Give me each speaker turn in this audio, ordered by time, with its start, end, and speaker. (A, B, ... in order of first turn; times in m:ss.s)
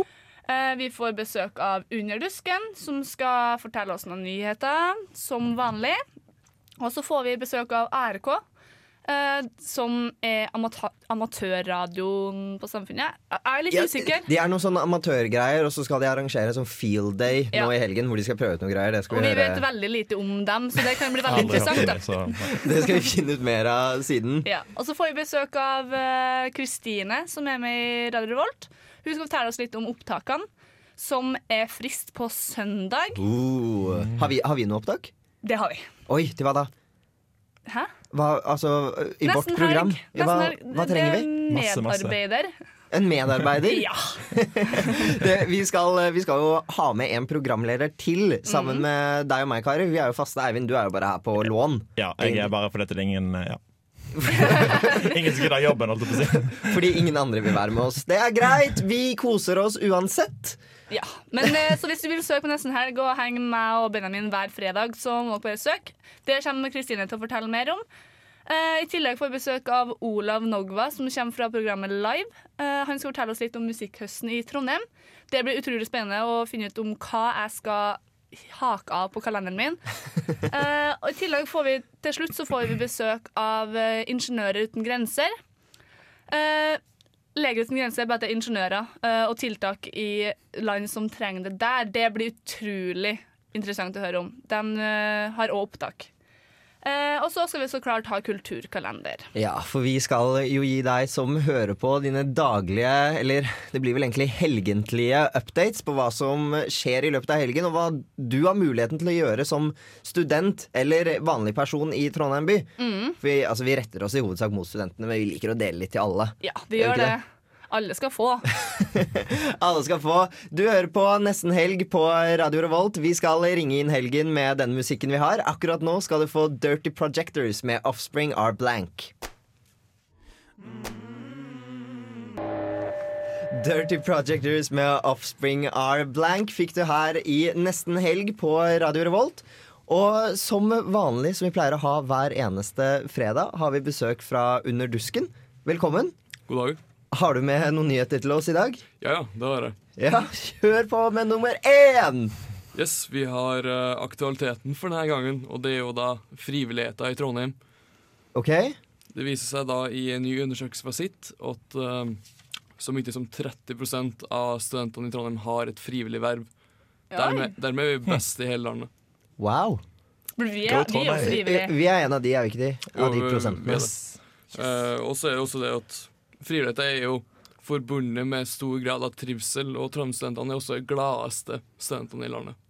0:00.5-0:06.0 A
0:06.8-0:08.4 A
0:09.0-0:14.3 A
0:13.7-0:19.6 B
0:19.1-0:22.5 A
0:21.3-0:21.9 B
0:21.3-0:22.6 C
0:22.5-0:24.5 B
0:24.4-0:33.2 A
0:33.2-0:35.1 B
0:35.4-0:35.9 A
0:36.1-0:36.7 B
0:38.1-0:41.3 B
0:39.2-0:42.5 A
0:41.5-0:42.2 C
0:42.9-0:52.5 B
0:43.6-0:44.2 A
0:48.5-0:48.8 A
0:52.0-0:53.6 C
0:54.2-0:56.8 C
0:54.2-0:54.7 B
0:54.4-0:55.2 A
0:56.5-1:00.6 B
1:00.9-1:07.8 A
1:08.5-1:19.8 A
1:20.4-1:25.3 A
1:26.3-1:26.8 A
1:27.3-1:36.1 A
1:36.8-1:39.3 A
1:39.3-1:52.7 B
1:52.8-1:53.2 A
1:53.2-1:57.2 B
1:56.4-1:58.5 A
1:58.6-2:09.1 B
2:13.5-2:26.1 B
2:26.5-2:26.8 D
2:27.1-2:28.8 B
2:29.0-2:29.8 D
2:30.0-2:32.4 B
2:32.7-2:37.6 D
2:38.3-2:38.8 B
2:39.1-2:42.2 D
2:42.7-2:46.5 D
2:47.1-2:47.5 A
2:47.1-2:48.9 D
2:49.4-2:49.8 B
2:50.4-2:51.7 A
2:50.6-2:51.4 C
2:51.2-2:54.1 B
2:52.9-2:53.9 D
2:54.5-3:02.6 D